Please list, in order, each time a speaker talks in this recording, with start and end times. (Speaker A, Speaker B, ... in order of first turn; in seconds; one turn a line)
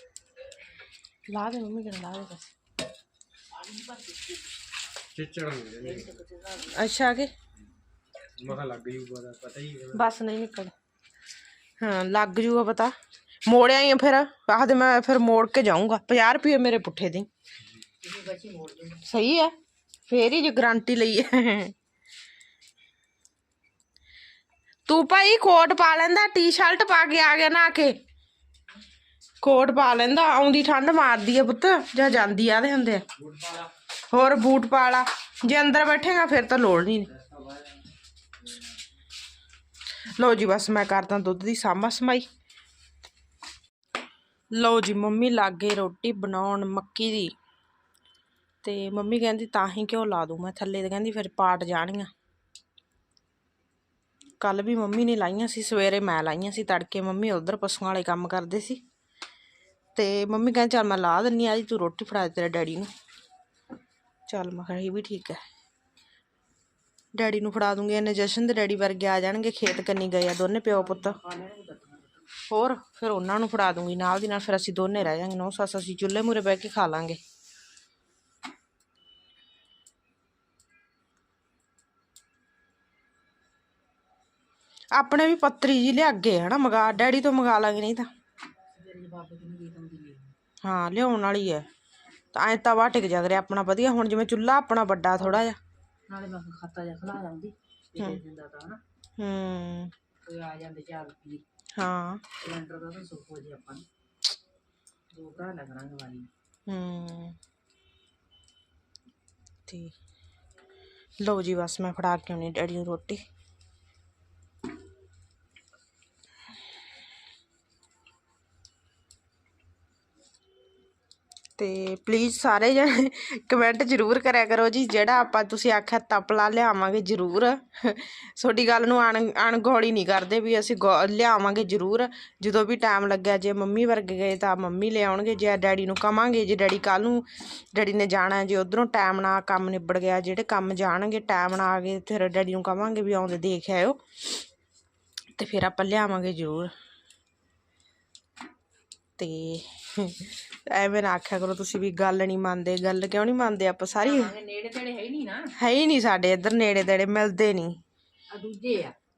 Speaker A: 1.3-2.5
Speaker B: 3.5-4.5
Speaker C: 5.1-6.2
Speaker B: 5.8-6.8
Speaker A: 6.7-7.3
Speaker C: 8.4-10.1
Speaker A: 9.9-10.7
Speaker A: 11.8-12.9
Speaker A: 13.5-17.3
Speaker B: 18.0-19.0
Speaker A: 19.0-19.5
Speaker A: 20.1-21.7
Speaker A: 24.9-27.9
Speaker A: 29.4-33.0
Speaker C: 33.2-33.7
Speaker A: 34.1-37.1
Speaker C: 37.1-37.6
Speaker A: 40.2-42.3
Speaker A: 44.5-47.3
Speaker A: 48.6-52.1
Speaker A: 54.4-58.8
Speaker A: 59.9-62.9
Speaker A: 64.3-65.4
Speaker A: 67.1-71.2
Speaker B: 70.7-72.3
Speaker A: 72.5-77.2
Speaker A: 84.9-88.1
Speaker B: 88.8-90.3
Speaker A: 90.6-91.7
Speaker A: 92.3-95.6
Speaker B: 96.1-98.8
Speaker A: 99.2-99.9
Speaker B: 100.2-101.4
Speaker A: 101.8-102.2
Speaker B: 102.4-103.8
Speaker B: 105.1-106.3
Speaker A: 106.7-107.3
Speaker A: 109.7-109.9
Speaker A: 111.2-113.2
Speaker A: 121.6-144.0
Speaker A: 145.4-146.7
Speaker A: 149.2-154.3
Speaker B: 154.0-155.4
Speaker A: 155.6-157.7
Speaker B: 158.3-158.9